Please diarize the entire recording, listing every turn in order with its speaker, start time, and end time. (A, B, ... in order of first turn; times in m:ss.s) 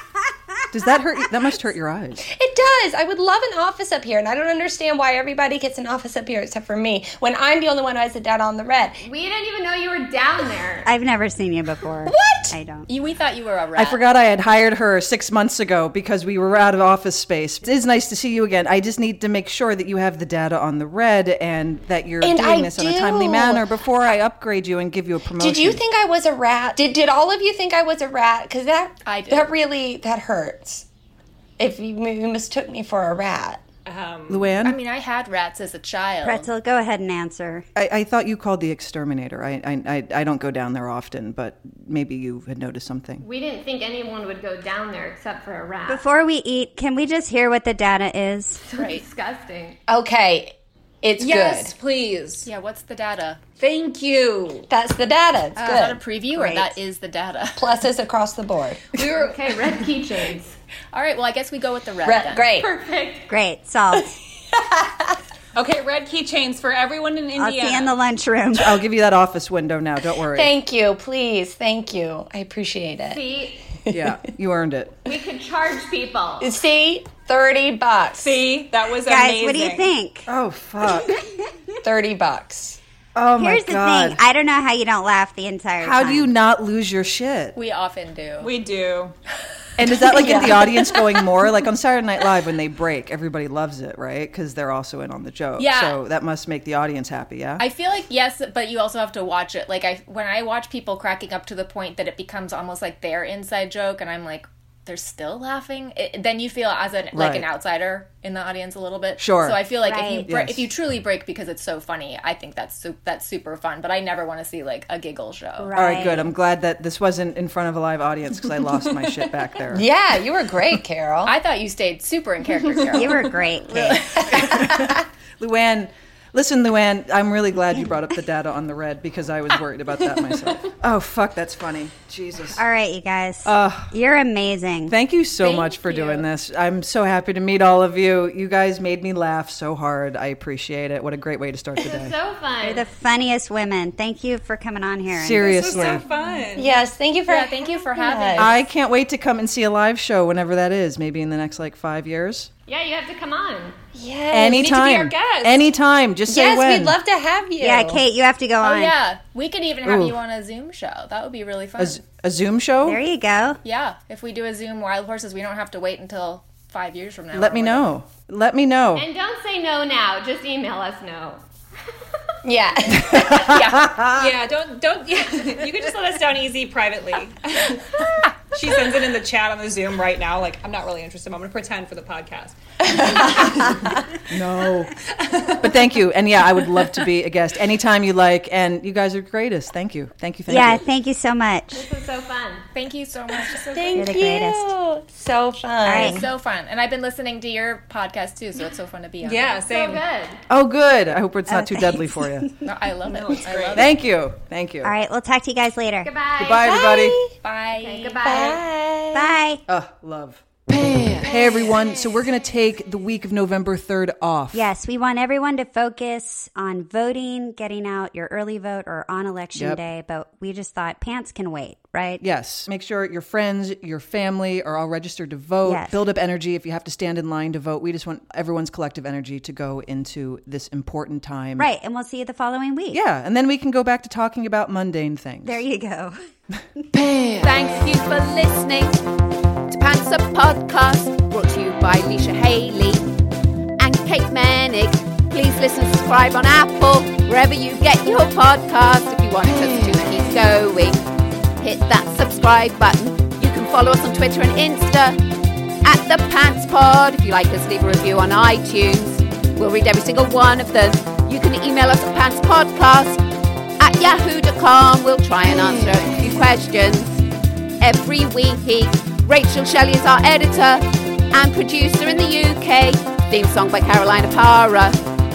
0:00.7-0:02.2 A
0:02.2-0:09.0 B
0:09.0-0:10.9 C
0:10.8-0:12.9 D
0:12.1-0:12.6 B
0:12.9-0:14.0 E
0:13.8-0:25.8 A
0:22.2-0:23.6 B
0:25.4-0:30.9 B
0:29.0-0:29.5 E
0:31.6-0:33.6 B
0:33.9-0:34.5 F
0:34.3-0:34.8 A
0:34.6-0:36.5 E
0:36.2-0:37.7 D
0:37.8-0:43.2 A
0:43.2-0:46.0 C
0:45.9-0:48.6 D
0:48.7-0:49.8 C
0:48.8-0:49.0 E
0:49.9-0:51.7 B
0:51.2-0:52.5 F
0:52.4-0:53.4 E
0:53.6-0:54.7 F
0:54.7-0:56.0 B
0:55.6-0:57.8 E
0:56.3-0:56.8 D
0:57.6-0:58.9 B
0:58.9-0:59.6 F
0:59.1-1:00.6 C
1:00.9-1:02.5 E
1:02.0-1:02.7 B
1:02.6-1:03.3 C
1:03.3-1:04.1 D
1:03.9-1:05.2 B
1:05.6-1:07.9 F
1:07.4-1:08.8 D
1:08.5-1:10.5 A
1:10.3-1:13.2 B
1:13.0-1:13.6 C
1:13.9-1:14.2 B
1:13.9-1:15.0 A
1:15.1-1:16.5 C
1:16.4-1:18.4 B
1:18.2-1:19.9 F
1:19.1-1:20.3 D
1:20.3-1:21.1 A
1:21.0-1:21.4 D
1:21.8-1:22.8 B
1:23.2-1:24.2 A
1:23.4-1:26.3 D
1:25.8-1:27.6 A
1:27.6-1:28.5 E
1:28.4-1:29.2 F
1:29.8-1:37.6 A
1:30.1-1:31.1 B
1:35.6-1:36.0 E
1:37.6-1:55.7 E
1:47.1-1:47.5 A
1:49.2-1:49.6 A
1:49.8-1:50.3 D
1:50.3-1:50.7 A
1:55.6-1:56.3 D
1:55.7-1:59.9 A
1:59.7-2:01.3 B
2:01.2-2:03.4 E
2:02.9-2:04.0 D
2:03.9-2:05.0 B
2:04.1-2:04.5 E
2:04.3-2:12.6 A
2:12.6-2:14.9 D
2:13.4-2:13.9 A
2:14.9-2:22.1 A
2:15.4-2:16.2 C
2:21.8-2:22.9 C
2:22.6-2:25.7 D
2:25.1-2:26.0 A
2:25.4-2:26.8 F
2:26.6-2:28.6 B
2:27.3-2:28.7 E
2:28.4-2:32.5 A
2:32.7-2:33.8 C
2:34.0-2:34.6 B
2:34.3-2:37.0 A
2:34.5-2:35.7 F
2:36.3-2:38.0 B
2:37.6-2:38.9 D
2:38.6-2:42.0 E
2:39.8-2:40.2 A
2:41.8-2:43.0 A
2:42.8-2:43.6 D
2:43.6-2:47.9 E
2:47.3-2:49.1 A
2:49.0-2:51.4 C
2:52.4-2:53.4 B
2:53.0-2:54.3 A
2:53.2-2:54.0 E
2:54.1-3:04.0 F
3:02.9-3:03.2 B
3:04.3-3:10.8 A
3:05.2-3:05.8 F
3:10.5-3:11.8 D
3:11.7-3:12.7 C
3:12.8-3:14.1 E
3:13.5-3:16.3 B
3:14.0-3:14.7 D
3:15.8-3:16.2 D
3:16.0-3:19.6 E
3:19.2-3:20.0 F
3:19.6-3:20.4 C
3:20.5-3:22.5 A
3:21.5-3:22.3 D
3:22.6-3:23.9 E
3:23.1-3:23.9 F
3:23.7-3:24.9 A
3:24.8-3:26.1 D
3:26.0-3:26.7 C
3:26.4-3:27.2 A
3:26.6-3:27.4 B
3:27.4-3:28.4 E
3:27.7-3:28.6 C
3:28.2-3:29.4 B
3:29.1-3:29.6 D
3:29.7-3:30.4 A
3:31.0-3:34.7 A
3:34.5-3:42.2 D
3:39.5-3:39.8 A
3:42.2-3:51.7 A
3:45.6-3:46.0 D
3:51.6-3:53.0 D
3:52.9-3:55.6 A
3:55.4-3:56.2 D
3:57.4-3:59.0 G
3:59.7-4:03.0 G
4:03.8-4:11.0 G
4:11.6-4:15.2 G
4:15.8-4:23.2 G
4:23.8-4:27.2 G
4:27.8-4:35.0 G